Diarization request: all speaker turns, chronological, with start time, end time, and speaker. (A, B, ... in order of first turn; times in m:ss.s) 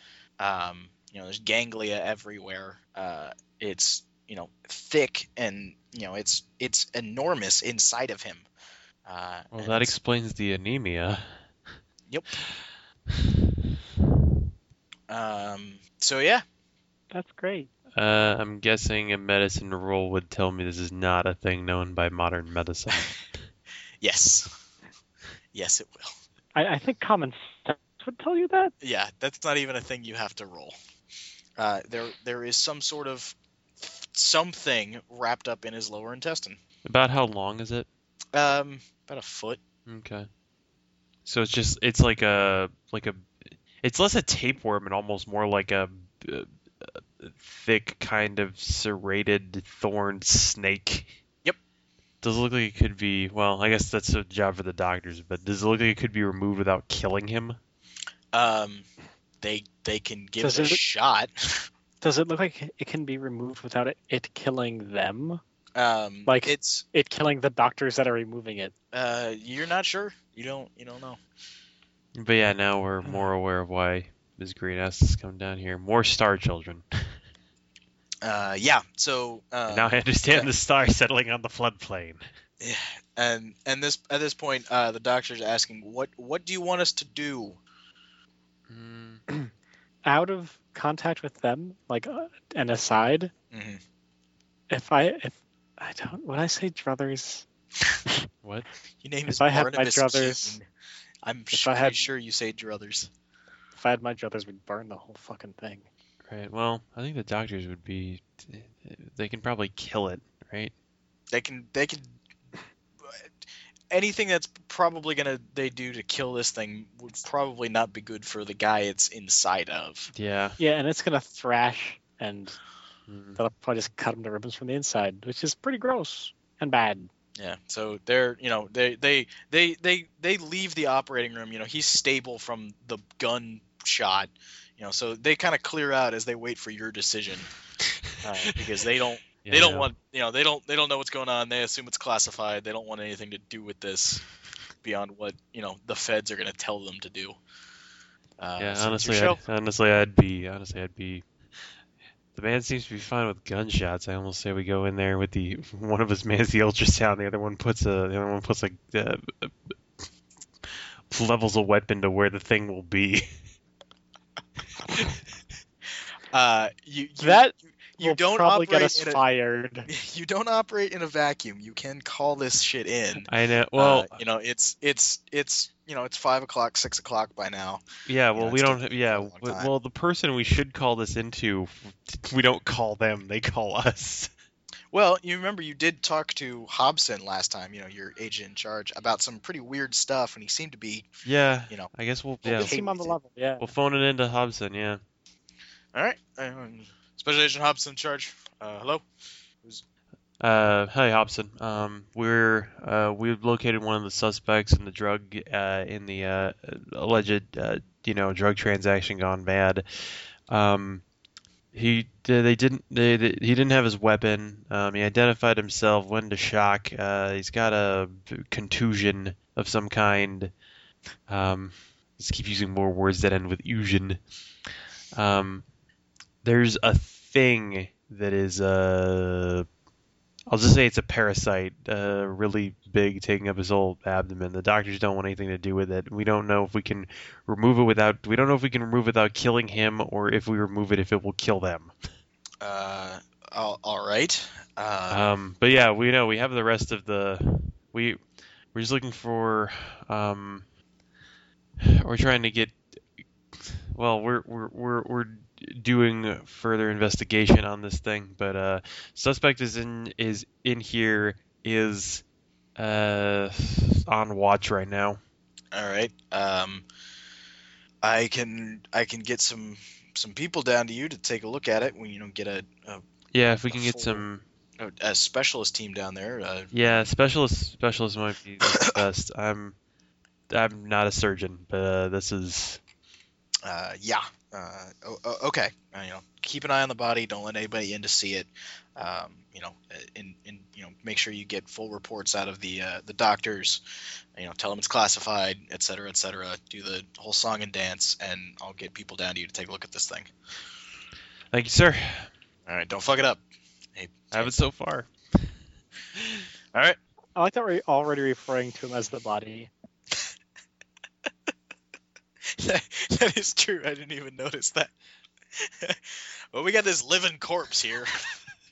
0:00.4-0:08.5 A
0:09.0-0:10.0 A
0:09.5-0:11.4 B
0:12.1-0:12.3 A
0:13.1-0:13.4 B
0:15.1-0:16.4 A
0:17.1-0:17.7 C
0:17.9-0:23.3 B
0:24.0-0:24.5 A
0:25.5-0:26.2 A
0:26.5-0:28.7 C
0:28.8-0:30.7 A
0:31.6-0:36.6 A
0:36.8-0:37.9 B
0:38.3-0:39.6 A
0:39.9-0:40.3 B
0:41.2-0:43.3 B
0:43.8-0:51.2 B
0:52.2-0:57.6 B
0:58.3-0:58.8 A
0:59.4-1:01.7 A
1:00.4-1:00.8 C
1:02.0-1:05.4 C
1:05.8-1:06.8 A
1:06.2-1:08.7 C
1:08.9-1:11.2 A
1:12.2-1:16.8 B
1:18.2-1:20.5 A
1:19.7-1:22.2 B
1:22.6-1:27.6 A
1:28.7-1:29.2 B
1:30.0-1:33.3 C
1:33.5-1:33.8 A
1:34.7-1:37.4 C
1:39.0-1:40.6 A
1:39.3-1:40.6 C
1:41.2-1:43.1 A
1:41.5-1:42.1 C
1:43.7-1:45.8 C
1:46.3-1:50.7 B
1:51.3-1:52.0 A
1:53.0-1:53.3 A
1:53.9-2:00.1 A
2:00.1-2:00.6 B
2:00.6-2:02.6 C
2:03.1-2:03.4 B
2:03.4-2:07.1 C
2:07.4-2:17.5 A
2:18.2-2:24.2 A
2:19.4-2:19.9 B
2:24.8-2:27.4 A
2:28.4-2:29.4 A
2:28.6-2:31.2 B
2:32.3-2:40.0 B
2:41.1-2:43.2 B
2:44.8-2:45.2 B
2:46.3-2:49.2 A
2:47.2-2:49.9 C
2:49.9-2:59.7 A
2:53.3-2:54.2 B
2:58.0-3:04.3 B
3:04.9-3:11.1 A
3:11.2-3:12.8 B
3:12.4-3:13.2 A
3:12.5-3:13.7 C
3:13.6-3:15.0 B
3:15.9-3:19.0 A
3:20.4-3:29.8 B
3:30.5-3:31.0 B
3:31.7-3:40.5 B
3:41.3-3:44.2 B
3:45.1-3:45.6 B
3:46.4-3:49.7 B
3:50.5-4:01.9 B
4:02.6-4:05.2 A
4:05.1-4:08.2 B
4:08.7-4:10.6 B
4:11.8-4:12.8 B
4:13.5-4:22.2 B
4:22.8-4:25.2 B
4:25.7-4:26.8 A
4:28.0-4:33.0 A
4:33.3-4:34.4 B
4:33.7-4:34.2 A
4:34.8-4:37.1 A
4:36.7-4:39.7 B
4:38.7-4:39.0 A
4:40.5-4:42.8 B
4:43.6-4:53.8 A
4:54.3-5:00.3 A
5:01.5-5:02.3 B
5:02.6-5:03.4 A
5:03.9-5:04.5 A
5:04.3-5:05.5 B
5:06.1-5:06.4 B
5:06.7-5:07.0 A
5:07.4-5:09.7 C
5:12.5-5:14.9 A
5:15.5-5:18.3 A